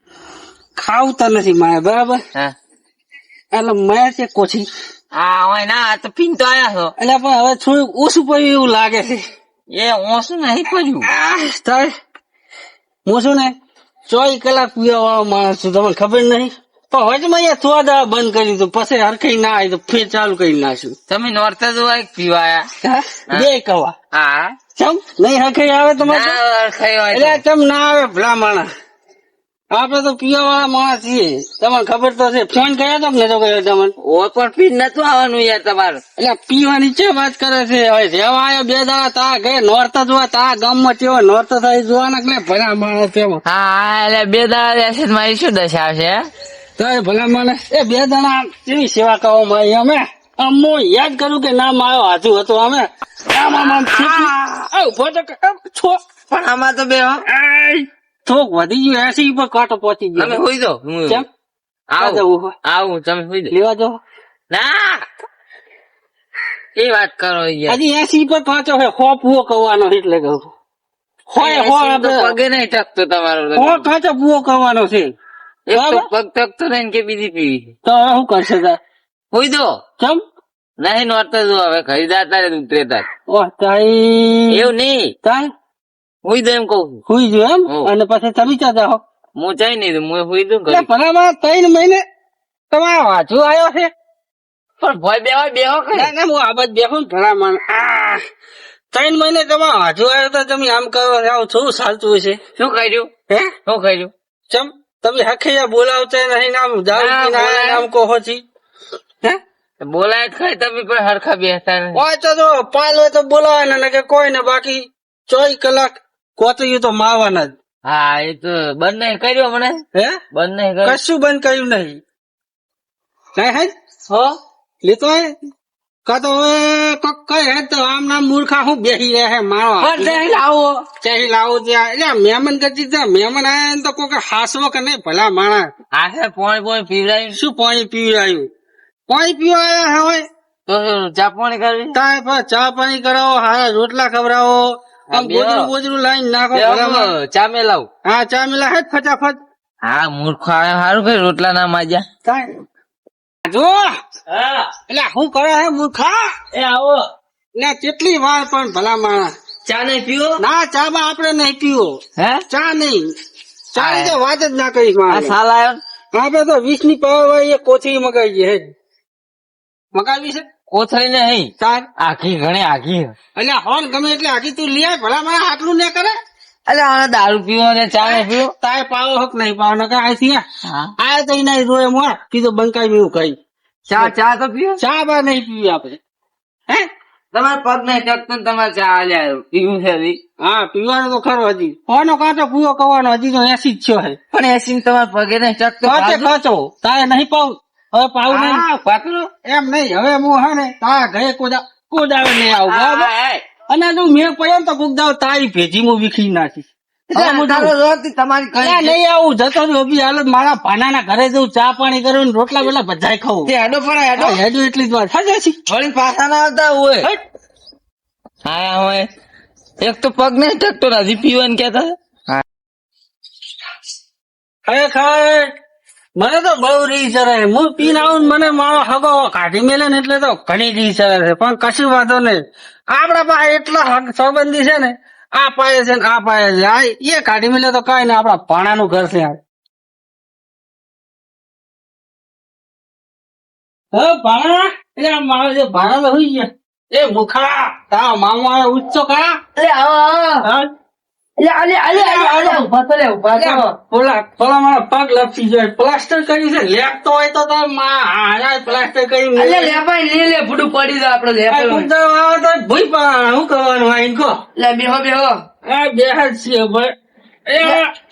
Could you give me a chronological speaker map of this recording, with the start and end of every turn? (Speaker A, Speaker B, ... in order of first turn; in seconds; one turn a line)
Speaker A: 0.8-2.2
Speaker A: 3.5-4.7
Speaker B: 5.1-6.9
Speaker A: 7.0-9.2
Speaker B: 9.7-11.1
Speaker A: 11.1-11.9
Speaker A: 13.1-13.5
Speaker A: 14.1-20.9
Speaker B: 21.1-22.7
Speaker A: 22.8-23.9
Speaker B: 24.1-24.6
Speaker A: 24.8-26.4
Speaker B: 26.0-27.4
Speaker A: 27.1-28.7
Speaker A: 29.7-33.9
Speaker B: 34.0-36.0
Speaker A: 36.2-43.4
Speaker B: 43.5-46.3
Speaker A: 46.8-56.0
Speaker B: 53.5-54.3
Speaker B: 56.3-57.2
Speaker A: 57.3-60.4
Speaker B: 60.1-61.2
Speaker B: 61.9-63.5
Speaker A: 62.0-62.6
Speaker A: 63.5-64.0
Speaker B: 64.5-65.0
Speaker B: 66.8-67.8
Speaker A: 67.7-70.5
Speaker A: 71.3-72.4
Speaker B: 71.4-73.9
Speaker A: 73.5-75.1
Speaker B: 75.7-77.7
Speaker A: 75.7-76.1
Speaker A: 77.8-78.8
Speaker B: 79.3-79.8
Speaker B: 80.8-83.1
Speaker A: 83.3-84.7
Speaker B: 84.5-85.1
Speaker B: 86.2-87.0
Speaker A: 87.1-89.0
Speaker B: 87.7-87.9
Speaker B: 89.4-90.9
Speaker A: 90.7-92.0
Speaker A: 92.7-93.9
Speaker B: 94.8-96.1
Speaker A: 95.9-98.2
Speaker A: 98.9-102.4
Speaker B: 102.6-103.1
Speaker A: 103.3-103.5
Speaker B: 103.7-104.1
Speaker A: 104.5-108.4
Speaker B: 106.9-107.9
Speaker B: 109.8-112.0
Speaker A: 111.9-117.5
Speaker B: 117.8-119.8
Speaker A: 119.9-120.2
Speaker B: 120.3-121.0
Speaker A: 120.8-122.0
Speaker A: 123.4-123.7
Speaker A: 124.8-125.3
Speaker A: 126.0-135.7
Speaker B: 129.8-130.8
Speaker B: 135.9-137.4
Speaker A: 137.3-138.5
Speaker A: 139.1-140.2
Speaker B: 140.7-142.0
Speaker A: 141.9-147.1
Speaker B: 145.1-145.7
Speaker B: 146.5-147.9
Speaker A: 148.0-149.4
Speaker B: 149.8-152.1
Speaker A: 152.2-152.6
Speaker A: 153.4-153.9
Speaker B: 154.3-154.7
Speaker A: 154.9-156.4
Speaker B: 156.5-157.1
Speaker A: 157.6-159.3
Speaker B: 159.7-160.4
Speaker A: 160.4-163.1
Speaker B: 162.2-162.4
Speaker A: 163.7-165.4
Speaker B: 163.8-164.2
Speaker B: 165.1-165.8
Speaker A: 166.1-168.7
Speaker A: 169.9-170.5
Speaker B: 170.7-173.2
Speaker A: 171.6-171.9
Speaker A: 173.3-176.1
Speaker B: 176.7-178.5
Speaker A: 178.0-180.4
Speaker B: 180.7-180.9
Speaker A: 181.0-183.4
Speaker B: 183.9-184.8
Speaker A: 184.8-186.0
Speaker B: 187.3-190.2
Speaker A: 190.4-194.2
Speaker B: 194.3-196.3
Speaker A: 195.8-198.7
Speaker B: 198.3-199.3
Speaker A: 199.4-203.1
Speaker B: 202.6-203.4
Speaker A: 203.7-207.7
Speaker B: 207.1-209.0
Speaker A: 208.6-213.5
Speaker B: 213.5-214.4
Speaker A: 214.2-215.6
Speaker B: 215.7-217.1
Speaker B: 218.4-219.1
Speaker B: 219.8-222.4
Speaker A: 224.7-225.5
Speaker A: 226.2-239.4
Speaker A: 243.9-249.4
Speaker C: 249.6-250.5
Speaker A: 250.4-250.7
Speaker C: 251.4-253.8
Speaker A: 251.9-252.6
Speaker A: 253.4-259.8
Speaker C: 259.4-261.9
Speaker A: 261.5-264.4
Speaker C: 264.6-265.4
Speaker A: 265.6-266.9
Speaker A: 267.5-267.9